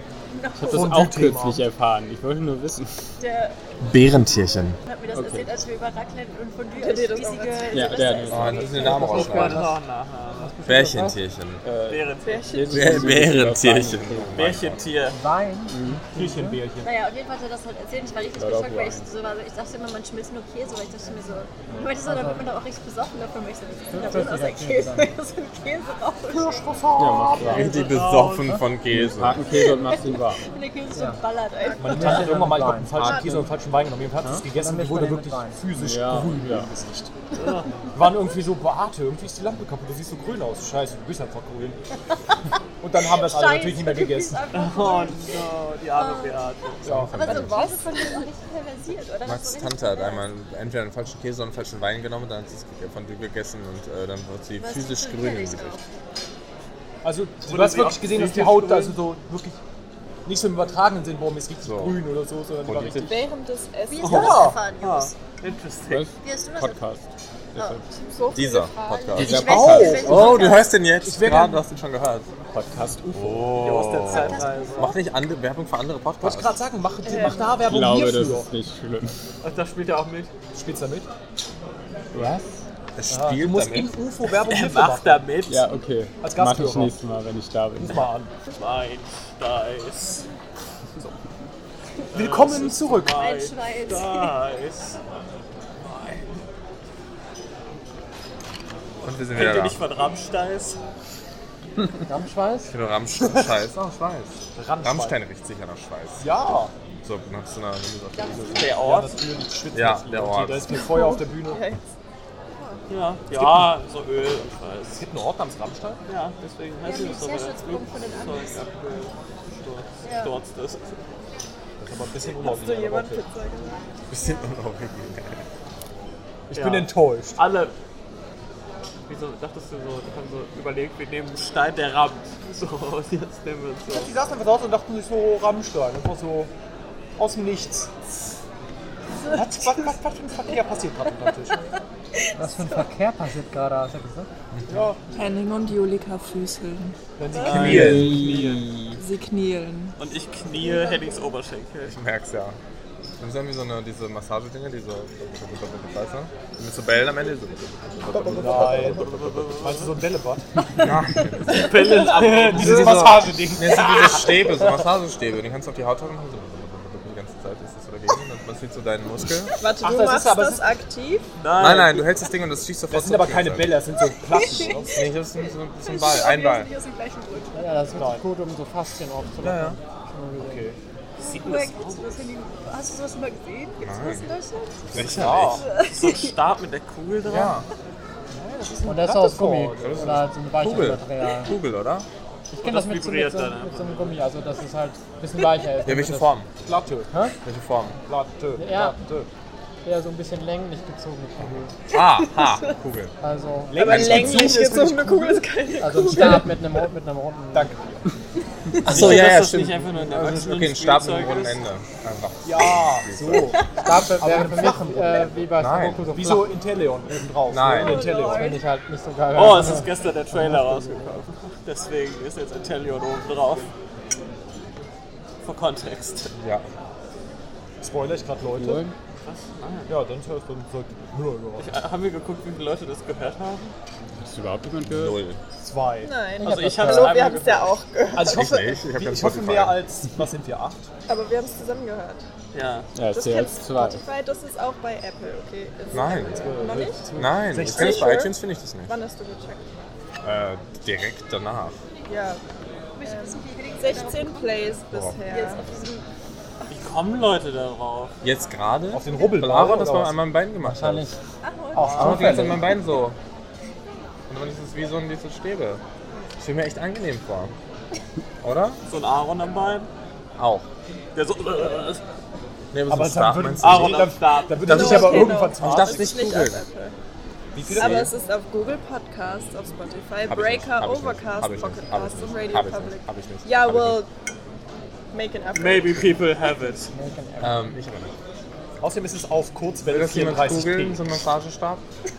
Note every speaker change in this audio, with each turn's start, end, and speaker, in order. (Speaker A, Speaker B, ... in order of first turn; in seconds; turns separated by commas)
Speaker A: 0.3-1.0, Speaker B: 0.6-3.0, Speaker C: 0.7-1.6, Speaker A: 3.2-3.6, Speaker D: 3.8-4.8, Speaker A: 4.8-9.1, Speaker B: 5.1-5.5, Speaker E: 6.8-8.0, Speaker B: 7.7-9.7, Speaker D: 8.3-9.7, Speaker F: 8.9-9.7, Speaker G: 9.2-10.6, Speaker F: 10.4-11.2, Speaker D: 10.7-11.6, Speaker B: 11.6-14.4, Speaker G: 11.9-12.7, Speaker E: 12.2-12.9, Speaker D: 12.7-14.8, Speaker G: 14.3-15.2, Speaker F: 15.1-16.6, Speaker B: 15.7-16.1, Speaker C: 16.1-16.9, Speaker A: 16.8-26.8, Speaker B: 18.4-19.1, Speaker F: 22.0-22.5, Speaker F: 23.9-25.1, Speaker C: 26.3-27.8, Speaker B: 27.0-27.8, Speaker D: 27.5-29.4, Speaker G: 27.5-28.6, Speaker B: 28.9-30.4, Speaker A: 29.4-32.4, Speaker F: 30.9-31.2, Speaker C: 31.8-37.1, Speaker F: 31.8-33.2, Speaker A: 32.9-33.4, Speaker D: 33.0-33.5, Speaker F: 34.2-35.6, Speaker B: 35.7-36.7, Speaker G: 37.4-37.7, Speaker C: 37.9-41.8, Speaker C: 42.8-44.5, Speaker A: 43.1-45.4, Speaker G: 44.5-46.9, Speaker A: 45.9-46.5, Speaker D: 46.8-47.7, Speaker C: 46.9-47.2, Speaker A: 47.1-50.2, Speaker E: 47.3-48.2, Speaker D: 49.2-55.8, Speaker A: 54.6-55.8, Speaker C: 57.0-59.6, Speaker G: 57.5-59.0, Speaker C: 60.3-63.2, Speaker D: 61.6-62.0, Speaker D: 62.6-63.2, Speaker E: 63.0-64.4, Speaker A: 63.9-65.2, Speaker G: 64.0-66.1, Speaker C: 64.1-64.6, Speaker B: 65.8-67.0, Speaker A: 66.2-66.8, Speaker B: 67.5-67.8, Speaker A: 67.6-67.8, Speaker E: 67.9-69.3, Speaker D: 68.3-72.3, Speaker A: 69.1-70.7, Speaker B: 69.2-70.3, Speaker C: 69.2-70.5, Speaker C: 71.0-71.6, Speaker B: 72.5-73.6, Speaker D: 73.1-76.6, Speaker G: 73.6-75.0, Speaker C: 76.2-78.5, Speaker E: 77.0-77.6, Speaker B: 77.6-79.1, Speaker G: 79.4-80.3, Speaker C: 80.5-81.1, Speaker B: 82.1-82.5, Speaker D: 83.0-84.0, Speaker C: 83.1-85.3, Speaker G: 84.5-85.7, Speaker B: 85.5-88.0, Speaker C: 86.2-87.0, Speaker C: 87.8-88.3, Speaker G: 88.6-90.3, Speaker G: 92.1-95.0, Speaker C: 92.1-93.2, Speaker A: 93.1-94.3, Speaker G: 95.9-96.2, Speaker D: 99.0-99.8, Speaker G: 99.3-100.8, Speaker F: 102.1-102.7, Speaker D: 102.7-106.3, Speaker C: 104.6-105.2, Speaker C: 106.2-106.7, Speaker D: 107.0-108.8, Speaker A: 108.2-108.6, Speaker G: 108.5-109.2, Speaker C: 108.8-111.6, Speaker D: 109.7-110.7, Speaker E: 110.8-111.8, Speaker G: 112.9-115.0, Speaker C: 113.3-113.8, Speaker C: 114.9-116.0, Speaker G: 116.1-121.0, Speaker A: 116.8-118.6, Speaker A: 120.0-120.3, Speaker C: 121.8-123.2, Speaker E: 122.4-123.8, Speaker D: 124.1-125.4, Speaker C: 126.5-127.4, Speaker G: 126.5-127.7, Speaker G: 129.1-134.1, Speaker C: 133.9-136.5, Speaker C: 137.2-137.9, Speaker C: 139.3-141.6, Speaker F: 142.4-144.3, Speaker A: 142.5-142.9, Speaker C: 144.7-145.0, Speaker E: 145.1-147.5, Speaker C: 147.2-148.3, Speaker G: 147.4-148.7, Speaker B: 147.5-148.9, Speaker D: 147.5-148.0, Speaker E: 148.9-150.0, Speaker G: 150.0-152.0, Speaker D: 151.9-152.6, Speaker D: 153.2-159.6, Speaker C: 158.1-160.5, Speaker G: 158.6-159.9, Speaker D: 160.8-161.8, Speaker G: 161.5-163.1, Speaker C: 162.0-164.6, Speaker D: 162.5-169.5, Speaker E: 169.6-171.3, Speaker C: 169.8-170.7, Speaker G: 171.4-172.2, Speaker D: 171.6-173.8, Speaker C: 172.9-175.0, Speaker A: 174.3-175.0, Speaker D: 174.9-176.7, Speaker A: 175.9-177.8, Speaker F: 177.6-180.7, Speaker C: 178.0-178.3, Speaker D: 179.4-179.8, Speaker C: 180.4-180.8, Speaker G: 181.2-182.1, Speaker A: 181.2-185.1, Speaker D: 183.8-184.3, Speaker D: 184.9-185.6, Speaker C: 184.9-185.7, Speaker A: 185.6-186.3, Speaker G: 185.8-187.6, Speaker D: 187.2-187.7, Speaker C: 188.3-190.3, Speaker F: 188.9-191.5, Speaker D: 189.8-192.1, Speaker F: 192.5-196.3, Speaker G: 192.6-194.2, Speaker D: 195.8-196.5, Speaker C: 196.6-197.1, Speaker F: 197.1-197.4, Speaker D: 197.4-198.0, Speaker C: 198.1-199.3, Speaker F: 198.6-199.0, Speaker F: 199.8-201.8, Speaker D: 201.9-203.1, Speaker F: 203.2-204.2, Speaker C: 203.7-205.4, Speaker E: 203.7-206.6, Speaker D: 203.9-204.5, Speaker F: 205.8-207.8, Speaker C: 207.5-208.0, Speaker G: 208.8-211.6, Speaker D: 208.8-213.6, Speaker C: 212.4-215.4, Speaker F: 213.8-216.6, Speaker D: 215.6-216.1, Speaker C: 216.1-218.6, Speaker D: 217.5-218.1, Speaker A: 217.8-218.7, Speaker F: 218.1-221.2, Speaker G: 219.3-223.7, Speaker G: 225.4-226.3, Speaker D: 226.4-226.7, Speaker C: 227.8-228.8, Speaker B: 228.6-228.9, Speaker G: 229.2-229.9, Speaker C: 229.9-231.7, Speaker G: 231.6-233.7, Speaker B: 234.2-235.2, Speaker D: 234.8-235.4, Speaker C: 235.6-236.2, Speaker E: 236.0-238.7, Speaker F: 236.4-237.2, Speaker G: 236.4-237.8, Speaker C: 238.1-240.9, Speaker D: 238.3-239.8, Speaker E: 241.1-242.2, Speaker G: 242.5-242.9, Speaker B: 242.9-244.0, Speaker E: 243.0-249.7, Speaker D: 245.9-246.5, Speaker C: 246.4-248.2, Speaker D: 247.2-248.9, Speaker D: 250.2-251.8, Speaker E: 252.1-252.4, Speaker A: 253.0-256.0, Speaker E: 253.0-255.7, Speaker D: 254.9-255.2, Speaker G: 256.7-258.1, Speaker D: 258.2-261.1, Speaker C: 258.9-260.2, Speaker F: 260.6-261.2, Speaker A: 261.4-262.3, Speaker C: 261.7-262.6, Speaker D: 261.9-263.2, Speaker D: 264.3-265.8, Speaker D: 266.4-267.5, Speaker D: 268.4-268.8, Speaker G: 268.9-269.9, Speaker D: 270.4-270.7, Speaker G: 271.1-272.0, Speaker D: 272.7-274.1, Speaker C: 272.9-276.1, Speaker G: 273.6-275.3, Speaker E: 274.6-277.0, Speaker D: 274.8-276.7, Speaker C: 277.6-278.1, Speaker E: 277.7-284.1, Speaker D: 277.7-278.1, Speaker D: 280.3-284.0, Speaker E: 285.1-286.2, Speaker G: 285.5-286.9, Speaker F: 286.9-287.8, Speaker D: 287.4-288.1, Speaker C: 288.8-291.1, Speaker D: 289.9-291.8